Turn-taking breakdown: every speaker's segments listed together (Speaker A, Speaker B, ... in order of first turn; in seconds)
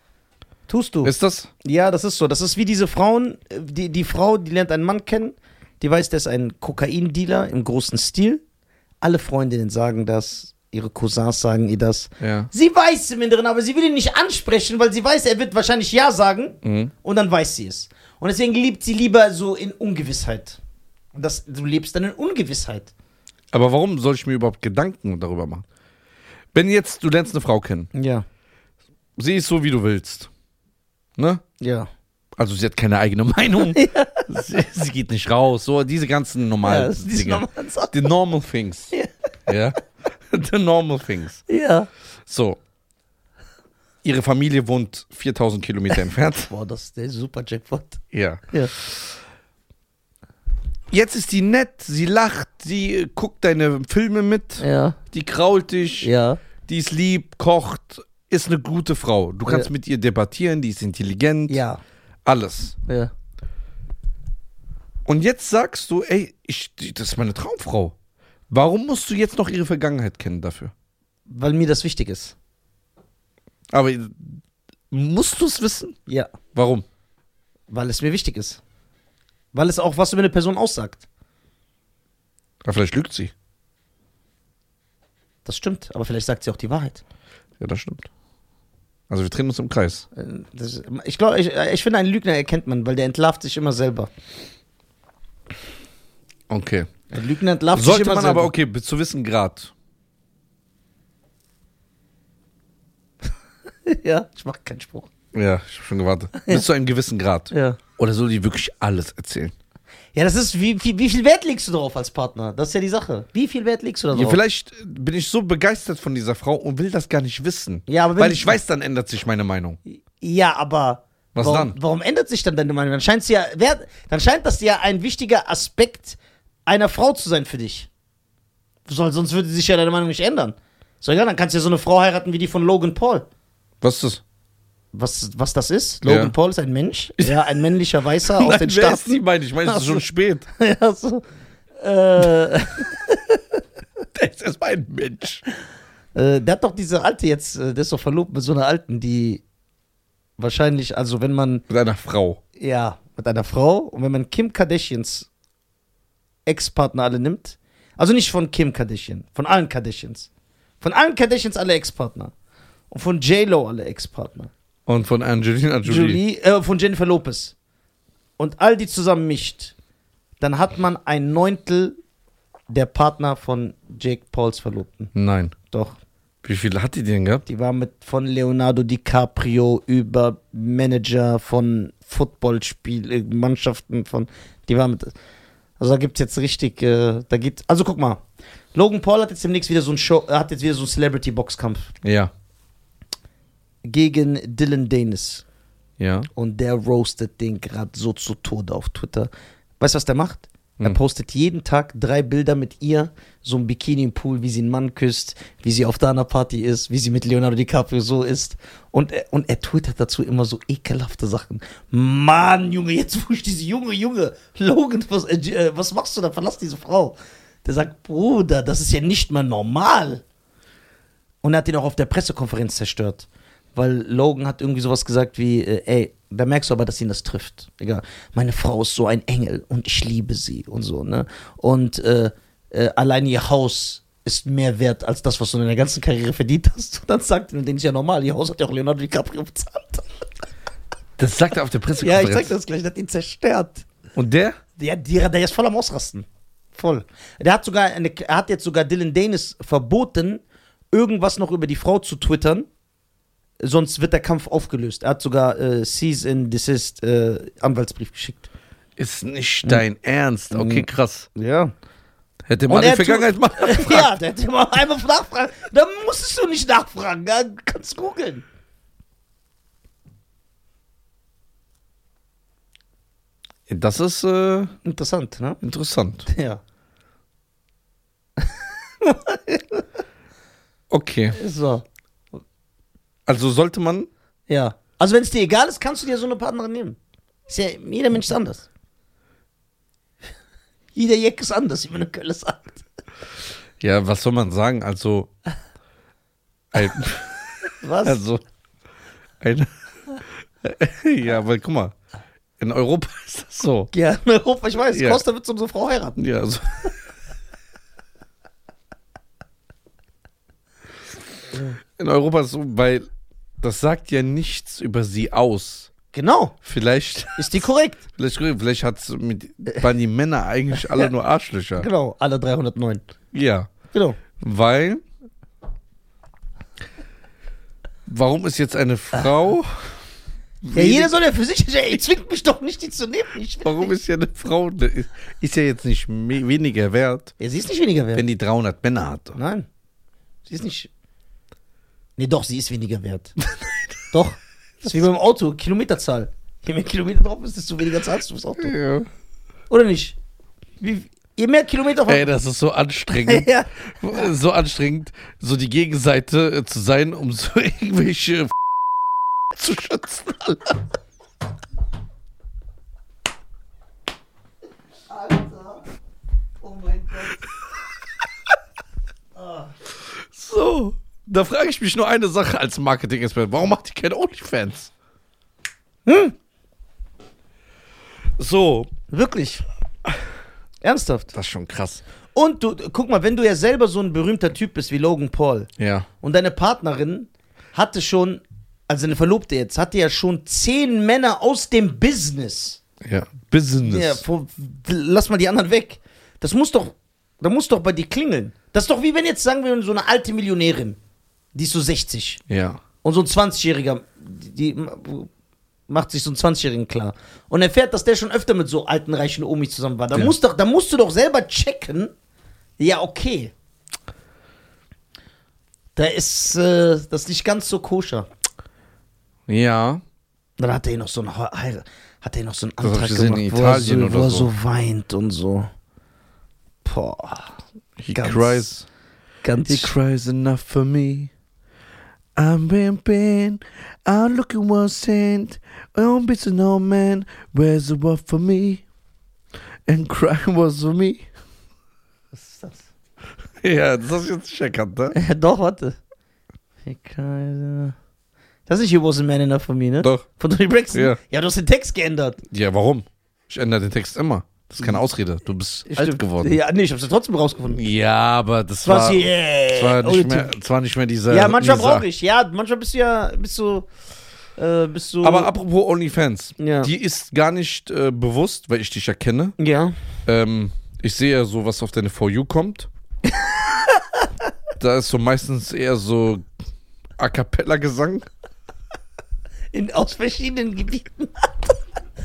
Speaker A: 0.7-1.1, 1.6-8.4, 9.0-20.6, 21.1-22.9, 27.9-28.2, 31.6-31.9, 33.6-34.3, 36.6-38.0, 41.5-41.9, 46.5-48.7, 54.6-55.0, 56.0-56.4, 61.5-61.8, 62.9-63.1, 71.3-72.3, 76.1-76.3, 77.7-78.6, 79.5-81.0, 85.4-87.0, 90.1-94.1, 97.1-98.5, 103.9-105.1, 107.5-107.8, 110.1-114.4, 117.9-118.6, 119.9-127.9, 128.9-133.3, 134.9-141.2, 141.8-143.6, 146.1-149.4, 150.4-151.6, 152.6-155.3, 156.4-160.3, 160.8-162.3, 162.9-164.5, 165.8-167.5, 168.4-169.7, 170.4-171.9, 172.7-175.1, 175.7-176.0, 177.4-185.1, 185.8-188.2, 188.7-191.9, 193.8-195.4, 196.4-220.2, 221.4-240.1, 242.0-243.9, 244.8-252.7, 253.6-258.5, 260.5-261.7, 262.7-268.4, 274.8-275.6, 276.2-276.6, 278.4-279.9, 281.4-281.9, 284.5-287.0, 287.5-288.6, 290.9-292.9, 297.7-298.2, 303.9-306.2, 316.1-316.6, 317.4-318.0, 321.8-323.0, 323.9-324.2, 330.7-333.9, 337.4-338.2, 339.4-339.6, 340.4-340.9, 342.2-343.3, 344.1-348.7, 349.7-350.1, 350.8-352.2, 353.2-354.3, 365.1-365.8, 366.6-367.4, 369.4-369.7, 376.1-376.4, 379.1-379.6, 380.8-381.3, 382.3-385.7, 386.2-392.8, 393.8-401.0, 401.5-402.4, 403.0-405.3, 405.9-412.1, 412.8-413.5, 415.9-418.3, 420.6-425.7, 426.8-427.6, 428.1-428.6, 429.4-429.9, 442.3-442.9, 445.1-446.0, 446.9-447.9, 448.7-452.4, 455.9-457.8, 458.8-460.5, 461.3-463.9, 464.6-465.5, 466.6-466.9, 469.6-469.9, 473.3-474.3, 479.7-481.8
Speaker B: 1.0-1.5, 12.2-12.5, 16.6-16.9, 23.5-25.6, 26.5-27.9, 29.2-30.3, 31.2-31.4, 32.4-38.9, 39.5-41.4, 42.2-42.6, 44.0-46.5, 48.1-49.1, 50.9-56.1, 56.7-61.6, 62.2-62.8, 65.0-67.9, 68.5-70.7, 73.7-76.0, 76.5-76.8, 82.6-83.3, 87.6-88.1, 89.1-90.0, 96.5-96.9, 97.7-99.7, 105.3-109.5, 114.1-119.8, 121.3-121.8, 133.8-134.2, 136.1-136.3, 137.2-137.6, 138.2-140.4, 144.1-145.4, 151.7-152.4, 164.9-166.2, 175.1-175.6, 176.4-177.4, 192.0-192.3, 196.0-196.3, 241.2-242.6, 244.1-244.6, 259.0-261.3, 262.5-264.1, 273.7-274.7, 275.6-276.3, 280.9-281.4, 283.3-284.1, 293.8-295.3, 296.7-298.4, 299.4-299.7, 300.6-301.9, 302.6-303.9, 304.9-305.2, 306.2-306.9, 312.0-313.1, 313.6-315.9, 316.6-317.6, 318.1-321.9, 323.3-323.7, 324.4-325.0, 328.1-329.9, 330.6-331.1, 333.6-337.3, 338.1-339.4, 348.6-349.1, 352.1-358.6, 359.6-360.7, 370.2-374.9, 378.4-378.9, 381.3-382.1, 385.8-386.1, 393.0-394.2, 402.5-402.8, 419.5-420.0, 422.8-424.5, 428.0-428.9, 429.6-431.3, 432.4-438.8, 439.9-441.3, 443.6-445.2, 452.5-456.6, 457.7-462.1, 465.2-469.6, 470.2-472.9, 474.8-476.4, 477.2-478.3